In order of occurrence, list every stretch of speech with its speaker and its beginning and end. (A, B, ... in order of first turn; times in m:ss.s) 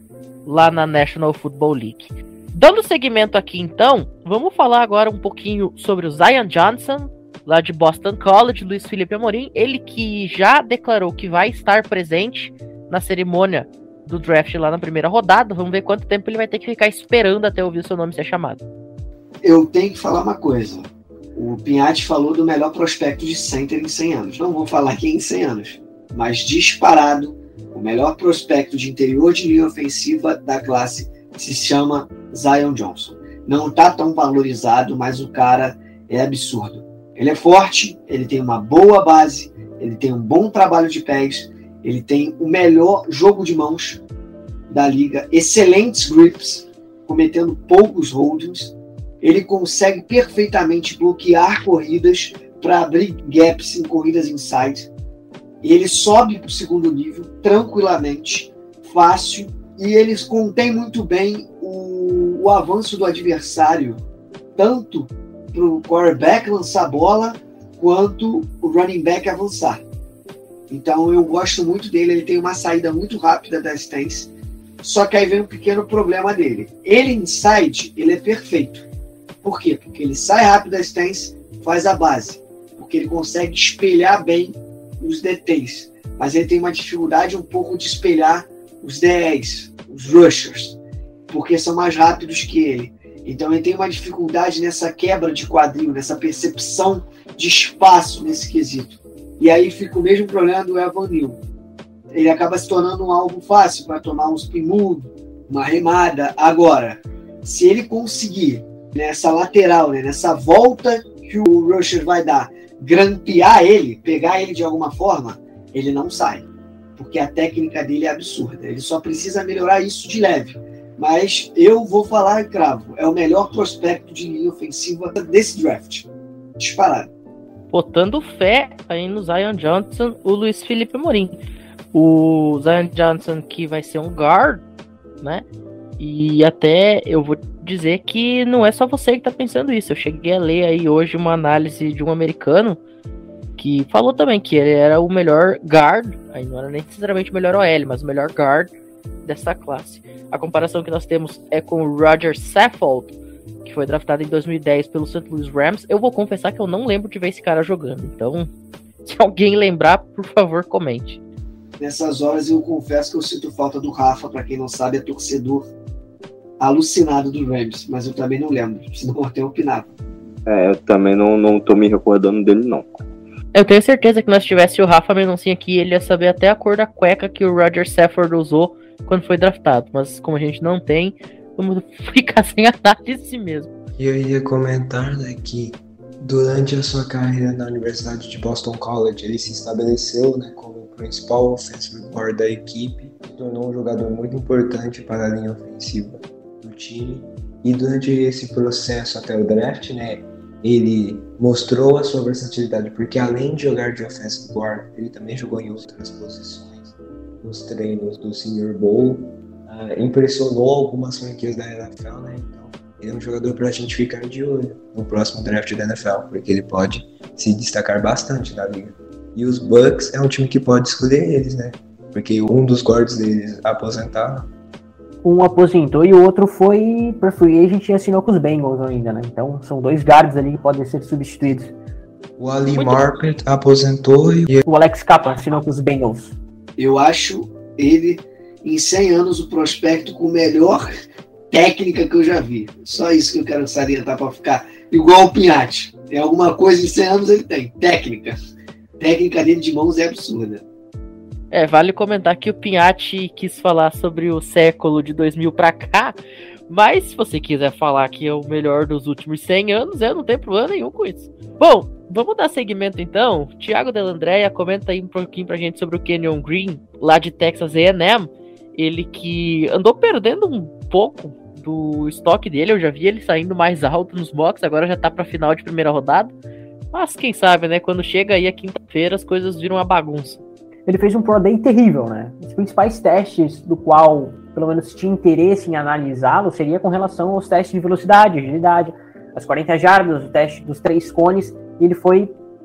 0:00.4-0:18.6 A
0:19.4-0:44.0 B
0:44.7-0:54.9 B
0:55.6-1:04.0 B
1:04.6-1:09.8 B
1:10.7-1:14.3 B
1:14.8-1:18.9 B
1:19.4-1:30.8 B
1:31.3-1:41.4 B
1:42.1-2:06.1 B
2:06.6-2:07.1 B
2:07.7-2:11.4 A
2:11.9-2:14.6 A
2:16.0-2:22.8 A
2:23.6-2:28.7 A
2:29.2-2:38.5 A
2:39.0-2:41.2 A
2:41.8-2:45.7 B
2:46.6-2:49.9 B
2:50.4-2:53.0 C
2:53.5-3:03.7 A
3:04.0-3:44.5 D
3:45.2-3:51.8 E
3:52.4-3:54.6 D
3:52.7-3:53.0 A
3:54.6-3:56.3 E
3:56.8-4:00.9 B
4:01.5-4:08.4 B
4:09.0-4:10.6 B
4:11.5-4:16.2 A
4:16.7-4:36.3 A
4:36.9-4:40.4 A
4:40.8-4:52.3 E